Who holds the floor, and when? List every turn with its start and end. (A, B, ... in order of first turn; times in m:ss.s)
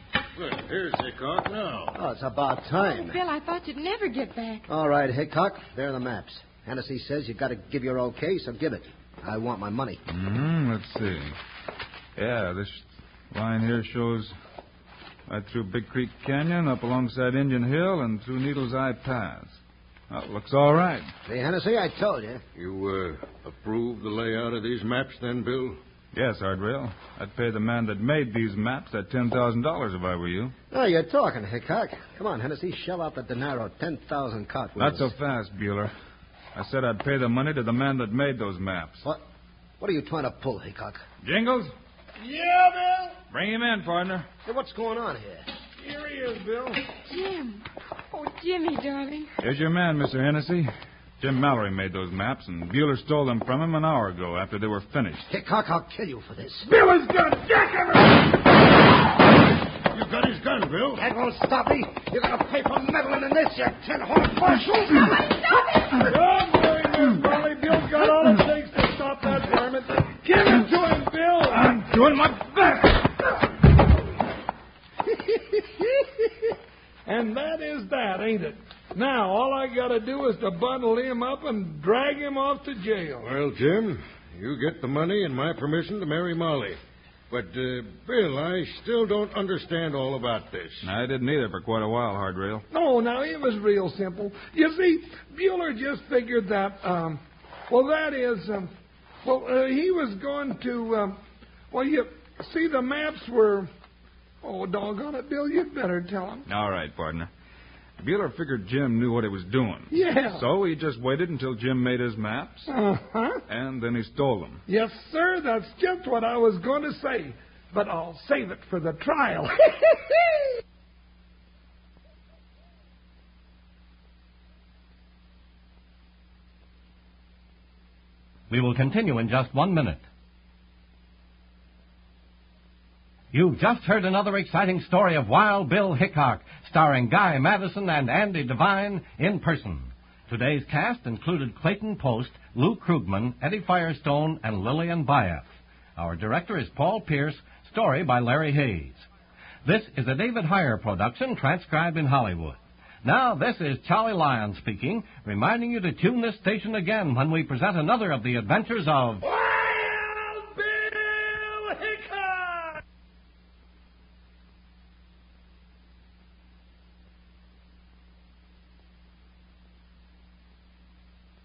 0:00.4-0:02.0 A
0:02.0-0:03.2 B
0:02.8-0:04.7 C
0:04.7-0:10.0 B
0:10.1-0:11.4 D
0:12.2-0:14.3 D
0:15.3-0:21.1 D
0:21.3-0:22.4 B
0:22.6-0:25.8 A
0:26.1-0:30.5 D
0:30.7-0:35.1 B
0:34.8-0:35.9 D
0:36.6-0:39.0 D
0:39.8-0:41.0 B
0:41.2-0:41.7 D
0:42.2-0:43.2 E
0:43.3-0:44.3 D
0:44.4-0:45.5 B
0:45.8-0:46.8 E
0:47.1-0:49.3 C
0:49.4-0:50.7 D
0:51.2-0:55.3 D
0:55.3-0:56.7 B
0:56.7-0:58.3 E
0:59.9-1:01.0 A
1:01.0-1:05.2 B
1:06.0-1:11.8 E
1:11.6-1:13.1 D
1:17.1-1:23.3 E
1:23.2-1:26.8 A
1:27.3-1:30.9 A
1:30.8-1:32.6 D
1:32.7-1:38.7 E
1:39.2-1:41.2 E
1:41.7-1:43.7 E
1:44.4-1:46.4 E
1:46.5-1:47.3 D
1:48.0-1:52.7 D
1:49.9-1:50.4 E
1:52.7-1:53.4 E
1:53.5-1:54.6 D
1:54.7-2:00.0 E
2:08.5-2:10.0 F
2:13.3-2:29.0 F
2:29.6-2:39.2 F
2:39.2-2:42.8 E